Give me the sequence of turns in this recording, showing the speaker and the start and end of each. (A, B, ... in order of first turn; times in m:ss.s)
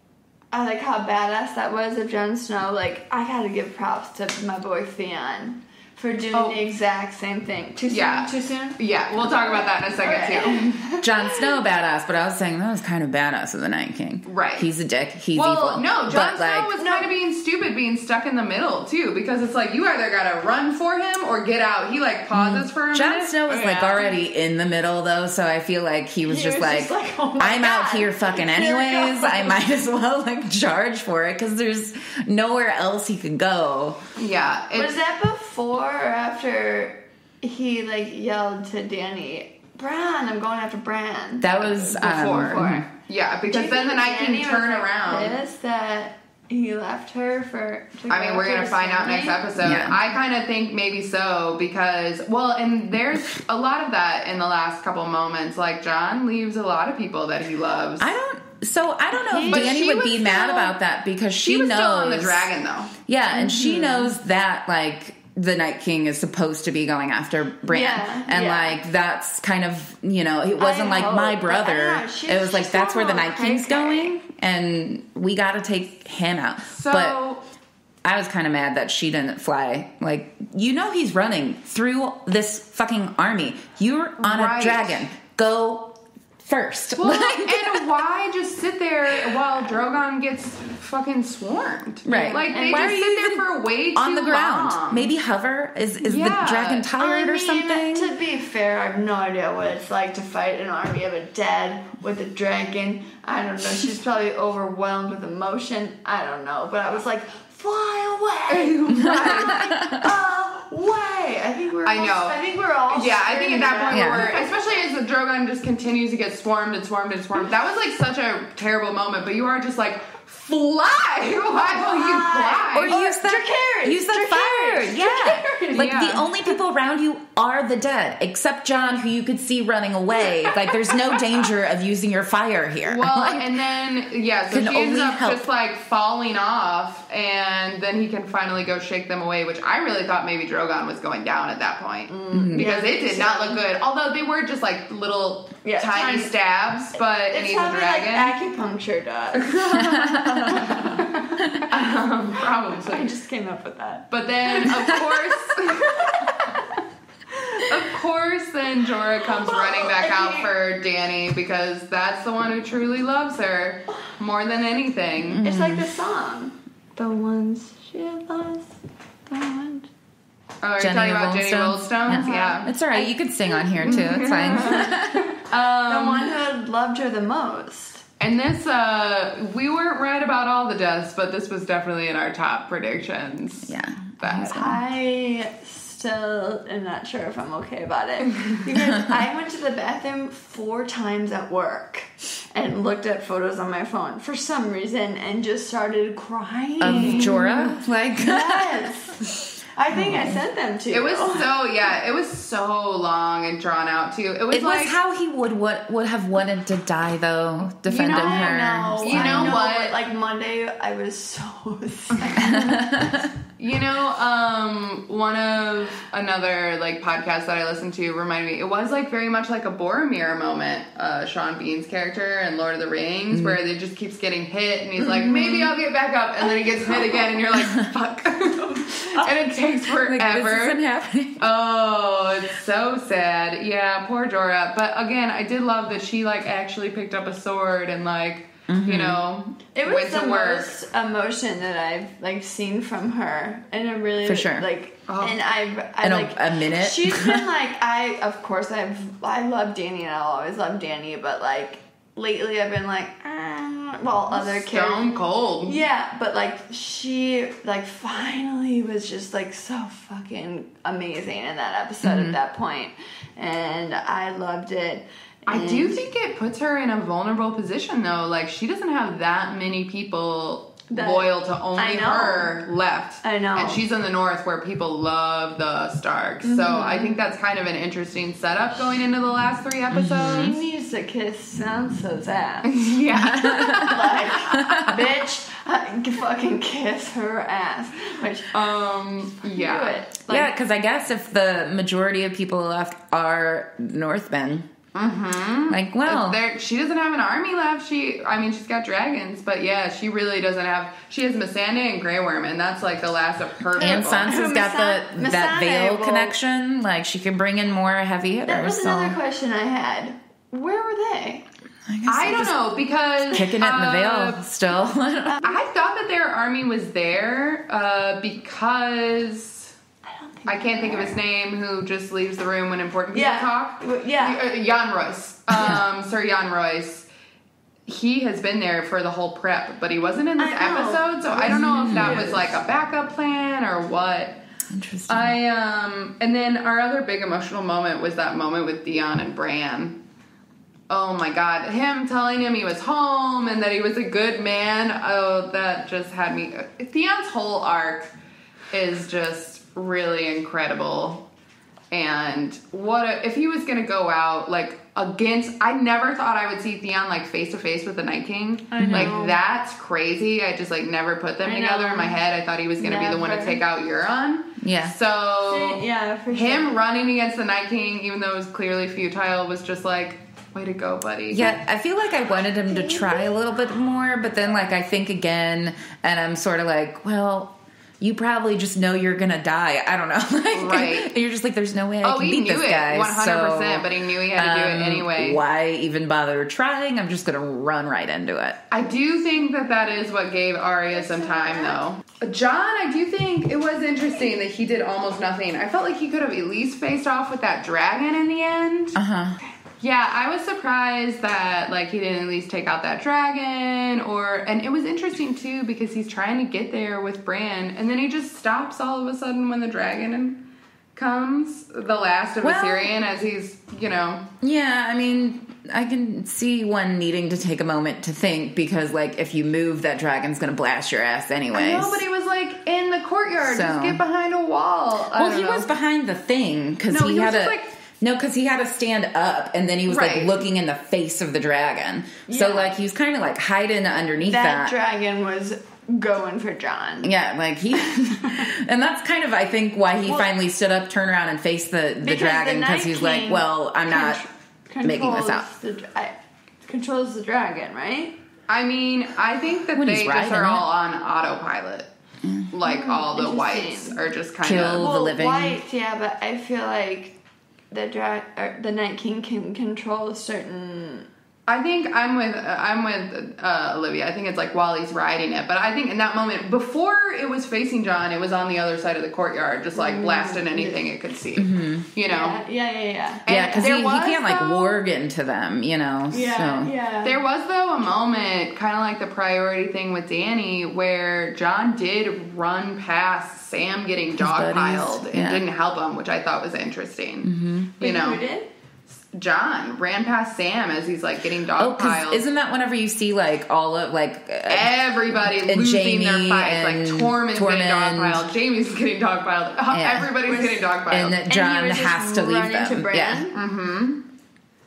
0:00.5-0:11.5 A
0:06.3-0:06.6 B
0:07.9-0:10.8 B
0:11.0-0:16.8 C
0:14.2-0:14.7 B
0:15.3-0:24.1 B
0:16.8-0:17.1 A
0:22.3-0:34.0 C
0:26.2-0:29.7 A
0:34.2-0:35.0 B
0:34.8-0:42.9 A
0:41.4-0:42.8 C
0:41.9-0:45.4 B
0:43.5-0:49.5 A
0:48.1-0:58.1 B
0:49.6-0:50.0 C
0:58.0-1:02.5 C
0:59.3-0:59.7 A
0:59.4-1:00.8 B
1:01.4-1:03.0 B
1:03.1-1:17.2 C
1:03.3-1:04.1 A
1:07.7-1:08.8 A
1:10.6-1:14.2 A
1:16.7-1:17.4 B
1:18.0-1:27.9 C
1:24.2-1:25.1 B
1:27.0-1:35.1 B
1:32.0-1:38.1 C
1:32.4-1:32.9 A
1:36.0-1:36.9 B
1:37.0-1:54.5 A
1:48.5-1:49.7 B
1:48.9-1:49.3 C
1:51.8-2:03.0 B
1:53.9-1:54.3 C
2:01.6-2:06.6 A
2:02.7-2:13.6 C
2:05.7-2:06.3 B
2:12.8-2:28.4 B
2:14.5-2:15.4 C
2:22.1-2:23.6 A
2:22.3-2:22.7 C
2:25.6-2:26.4 A
2:27.3-2:29.7 A
2:29.3-2:31.0 B
2:29.8-2:30.7 C
2:30.5-2:31.7 A
2:31.7-2:33.1 B
2:32.8-2:36.8 A
2:34.1-2:36.3 B
2:37.3-2:37.8 A
2:37.6-2:45.4 B
2:39.2-2:40.5 A
2:45.2-2:45.9 C
2:45.4-2:48.8 A
2:49.3-2:49.9 A
2:50.6-2:52.7 B
2:50.8-2:55.3 C
2:52.1-2:58.0 A
2:53.8-2:56.4 B
2:58.2-3:04.6 B
3:03.6-3:04.8 C
3:04.4-3:19.2 A
3:08.8-3:09.2 C
3:16.8-3:18.8 C
3:16.8-3:17.4 B
3:19.8-3:21.5 A
3:19.9-3:20.4 C
3:20.9-3:25.0 B
3:24.5-3:29.6 C
3:27.8-3:30.0 B
3:28.1-3:32.8 A
3:32.1-3:32.7 B
3:32.4-3:33.3 C
3:33.6-3:50.8 B
3:43.3-3:43.6 C
3:45.2-3:45.6 A
3:46.4-3:47.4 A
3:49.8-3:51.4 C
3:51.4-4:00.7 B
3:58.7-3:59.2 C
3:59.7-4:26.0 A
4:04.2-4:04.7 C
4:05.1-4:05.4 B
4:06.0-4:07.4 C
4:14.3-4:15.8 B
4:22.0-4:22.4 C
4:25.5-4:40.6 B
4:30.9-4:32.6 A
4:33.2-4:33.8 A
4:36.4-4:37.2 A
4:39.9-4:40.5 C
4:40.3-4:42.8 A
4:42.6-4:44.9 B
4:43.1-4:45.0 C
4:43.8-4:48.6 A
4:48.5-4:50.0 B
4:49.4-4:50.5 A
4:50.3-4:54.7 C
4:54.9-5:04.3 B
4:55.7-4:56.4 C
5:03.8-5:06.4 A
5:03.8-5:09.2 C
5:08.4-5:11.4 A
5:11.9-5:12.6 C
5:12.1-5:14.4 B
5:13.3-5:15.4 C
5:15.3-5:15.6 A
5:15.4-5:19.7 B
5:20.0-5:21.2 A
5:20.5-5:27.1 B
5:23.1-5:24.4 A
5:25.5-5:25.8 C
5:27.8-5:34.4 B
5:30.4-5:32.5 A
5:31.5-5:32.3 C
5:34.7-5:35.3 C
5:35.1-5:40.0 B
5:40.9-5:48.1 B
5:48.7-5:51.2 B
5:51.9-6:11.6 B
5:58.7-5:59.4 A
5:58.8-5:59.1 C
6:01.4-6:02.2 A
6:02.8-6:03.6 A
6:04.6-6:04.9 C
6:05.4-6:06.8 A
6:11.3-6:28.6 C
6:12.7-6:13.4 A
6:20.5-6:21.1 B
6:22.0-6:25.4 B
6:28.7-6:39.0 B
6:30.9-6:31.8 A
6:39.0-6:39.4 C
6:39.8-6:50.4 B
6:50.9-6:54.2 B
6:52.4-6:52.9 C
6:54.4-7:02.0 C
7:01.5-7:05.7 B
7:03.4-7:04.0 C
7:05.1-7:14.8 C
7:06.9-7:07.7 B
7:09.9-7:10.4 B
7:12.3-7:12.8 A
7:14.2-7:17.1 A
7:17.0-7:24.2 C
7:17.7-7:18.4 A
7:22.0-7:28.2 A
7:24.8-7:25.5 C
7:28.5-7:31.9 B
7:29.8-7:30.6 C
7:32.2-7:32.5 C
7:32.5-7:34.9 B
7:32.6-7:34.0 A
7:34.4-7:35.6 C
7:34.7-7:37.2 A
7:37.7-7:41.1 A
7:41.5-7:52.4 B
7:49.7-7:50.9 A
7:51.4-7:51.9 C
7:52.1-7:54.8 A
7:53.2-7:54.0 B
7:53.3-7:56.7 C
7:56.1-7:57.2 A
7:57.0-8:08.2 B
8:04.2-8:05.4 C
8:07.2-8:07.8 C
8:07.8-8:08.5 A
8:08.9-8:12.2 B
8:11.6-8:18.2 C
8:14.5-8:21.2 B
8:19.7-8:20.1 C
8:20.2-8:23.4 A
8:20.9-8:23.3 C
8:23.3-8:24.0 B